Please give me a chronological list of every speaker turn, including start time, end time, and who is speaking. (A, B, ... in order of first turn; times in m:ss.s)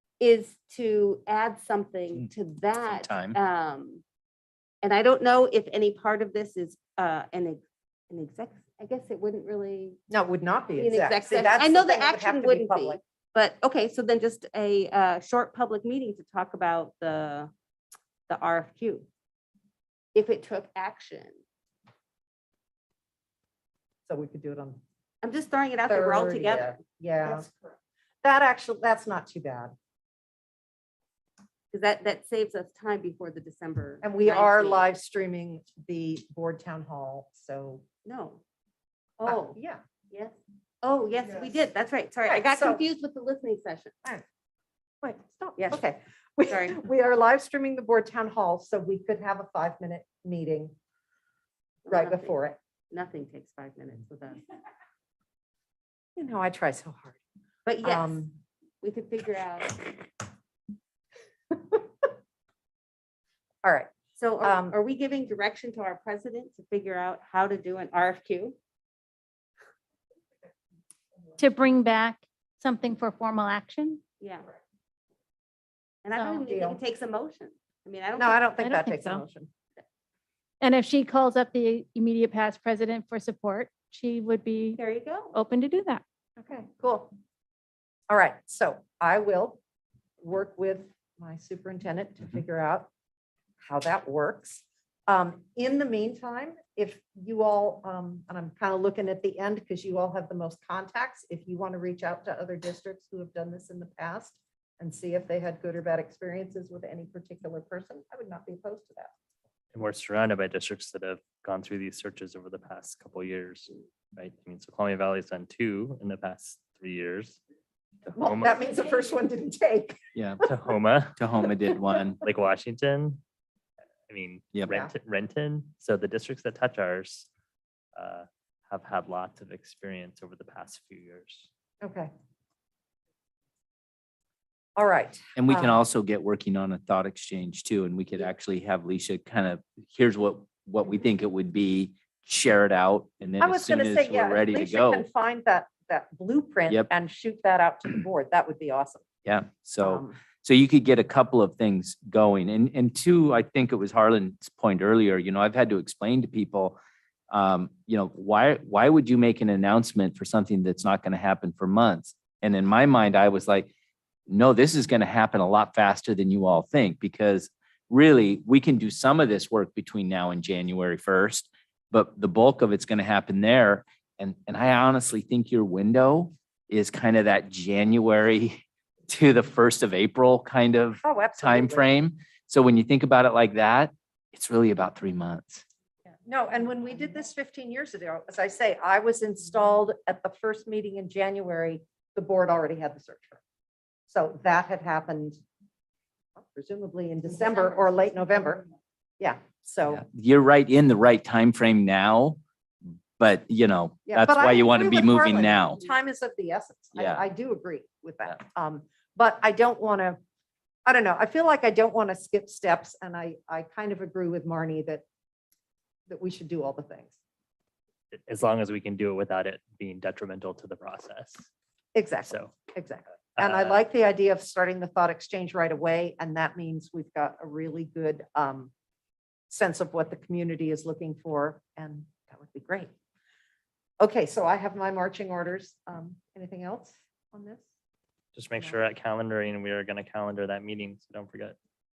0:00.2-0:04.0 A
0:02.8-0:03.4 B
0:04.8-0:10.0 A
0:10.1-0:13.0 C
0:10.8-0:17.5 A
0:18.3-0:19.1 A
0:20.2-0:21.4 A
0:24.1-0:24.8 C
0:25.2-0:26.8 A
0:25.9-0:27.5 C
0:28.2-0:29.7 C
0:31.7-0:34.9 A
0:34.0-0:37.8 C
0:38.0-0:38.4 A
0:39.2-0:39.6 A
0:39.3-0:39.8 C
0:40.1-0:43.9 A
0:42.3-0:42.8 C
0:45.0-0:50.7 C
0:45.6-0:45.8 A
0:46.5-0:46.8 A
0:51.9-0:52.6 C
0:51.9-0:52.4 A
0:52.9-0:54.4 A
0:56.2-0:57.2 C
0:57.7-0:58.3 A
0:57.8-0:58.4 C
0:58.8-1:00.0 A
1:03.6-1:03.9 C
1:04.2-1:08.6 A
1:04.4-1:04.8 C
1:11.4-1:14.0 D
1:14.2-1:14.5 A
1:16.0-1:18.6 A
1:16.1-1:16.4 D
1:16.4-1:16.8 C
1:18.2-1:19.5 C
1:18.6-1:19.2 D
1:20.6-1:24.8 D
1:24.8-1:25.4 A
1:25.3-1:26.0 D
1:26.4-1:27.1 C
1:28.1-1:29.6 C
1:30.2-1:32.9 C
1:33.6-1:49.1 C
1:49.7-1:57.4 E
1:58.1-1:58.6 E
1:58.2-2:00.5 C
2:00.4-2:01.2 E
2:01.2-2:02.2 B
2:02.2-2:03.2 E
2:04.1-2:07.3 E
2:08.0-2:11.5 E
2:11.8-2:12.1 C
2:14.8-2:15.8 C
2:15.4-2:25.1 B
2:23.4-2:29.0 C
2:29.2-2:36.8 B
2:29.8-2:30.2 C
2:37.3-2:43.7 B
2:44.3-3:05.6 B
3:01.0-3:02.0 C
3:06.3-3:13.4 C
3:14.1-3:15.4 C
3:16.4-3:18.6 C
3:19.2-3:20.0 C
3:19.9-3:22.4 B
3:23.2-3:25.8 B
3:24.1-3:30.2 C
3:27.0-3:27.2 B
3:30.9-3:35.0 C
3:36.1-3:37.2 C
3:38.1-3:41.5 E
3:42.0-3:48.7 C
3:42.2-3:42.5 E
3:43.4-3:43.8 E
3:49.5-3:52.9 C
3:54.0-3:57.7 C
3:58.4-4:01.6 E